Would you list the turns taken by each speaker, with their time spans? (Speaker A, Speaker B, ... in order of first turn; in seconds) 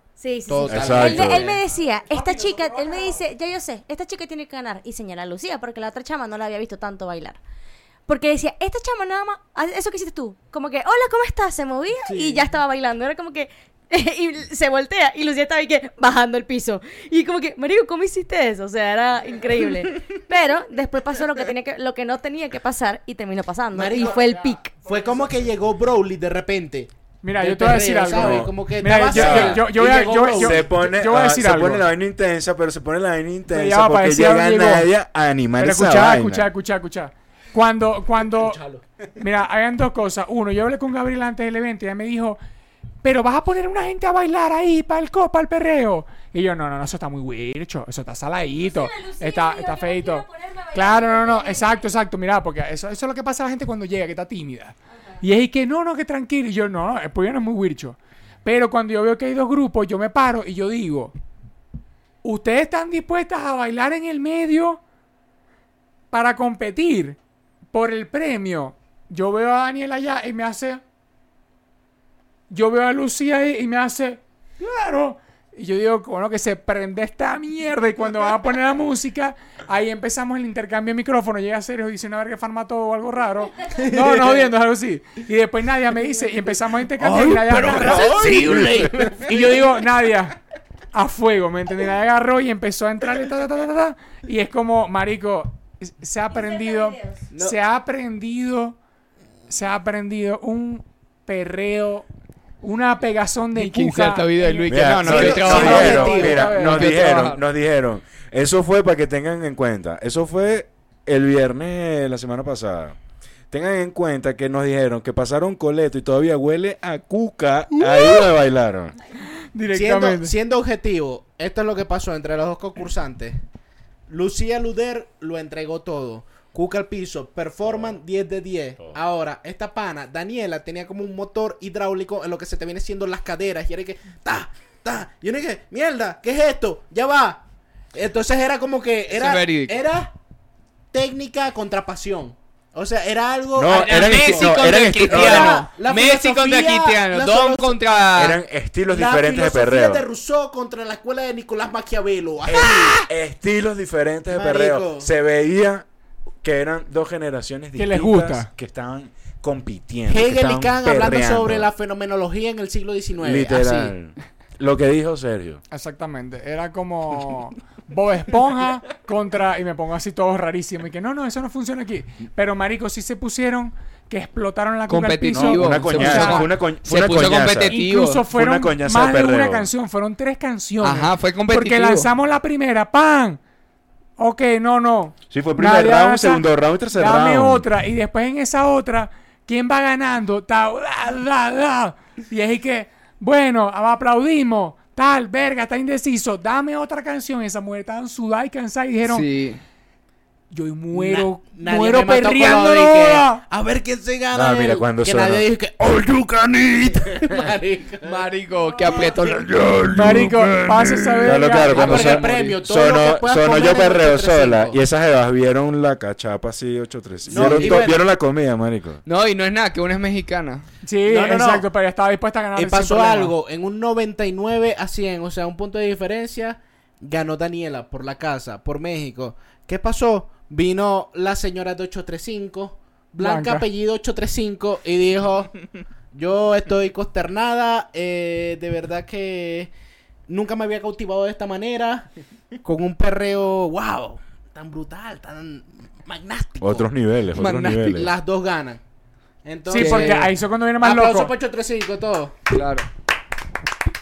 Speaker A: 0.2-7.4, 8.1-24.7, 48.6-51.9
Speaker B: 0.5-1.6, 12.1-12.4, 23.7-24.2, 24.9-30.7, 38.4-38.8, 83.7-84.5, 87.0-89.6, 97.3-97.6, 105.0-106.6, 119.7-123.4, 124.1-137.4, 137.9-140.1, 140.9-147.9, 148.9-153.1, 154.3-155.1, 160.1-163.9, 200.9-208.2, 211.7-214.8, 217.3-218.0, 221.1-221.7, 222.6-235.5, 236.1-239.7, 240.3-242.1, 242.6-246.9, 247.9-248.8, 249.4-252.4
Speaker C: 0.7-1.6, 28.1-28.5, 29.1-29.8, 30.3-36.5, 87.8-89.1, 104.7-113.0, 113.5-119.0, 127.6-128.0, 143.6-145.6, 148.1-150.1, 152.5-155.9, 156.4-161.7, 163.2-165.6, 175.3-177.8, 178.3-179.7, 185.3-187.7, 204.3-205.4, 206.7-207.3, 209.2-219.0, 246.6-248.1
Speaker D: 2.1-3.2, 23.9-25.5, 27.2-31.9, 33.5-34.9, 35.6-38.6, 39.2-42.4, 43.0-61.1, 62.2-64.8, 66.1-67.2, 67.7-70.8, 72.5-88.6, 89.1-90.4, 90.9-98.8, 99.5-102.1, 102.6-107.1, 117.8-118.3, 119.4-120.3, 157.8-158.5, 165.7-176.5, 177.7-183.4, 184.2-199.3, 200.5-203.4, 209.9-212.3, 220.8-223.3, 233.2-233.6, 249.7-251.3
Speaker E: 103.5-107.4, 139.1-139.8, 143.7-148.4, 174.9-178.3, 180.8-182.1, 199.0-199.6, 208.0-211.4, 219.1-220.6, 247.3-248.0, 249.7-250.3, 252.5-252.9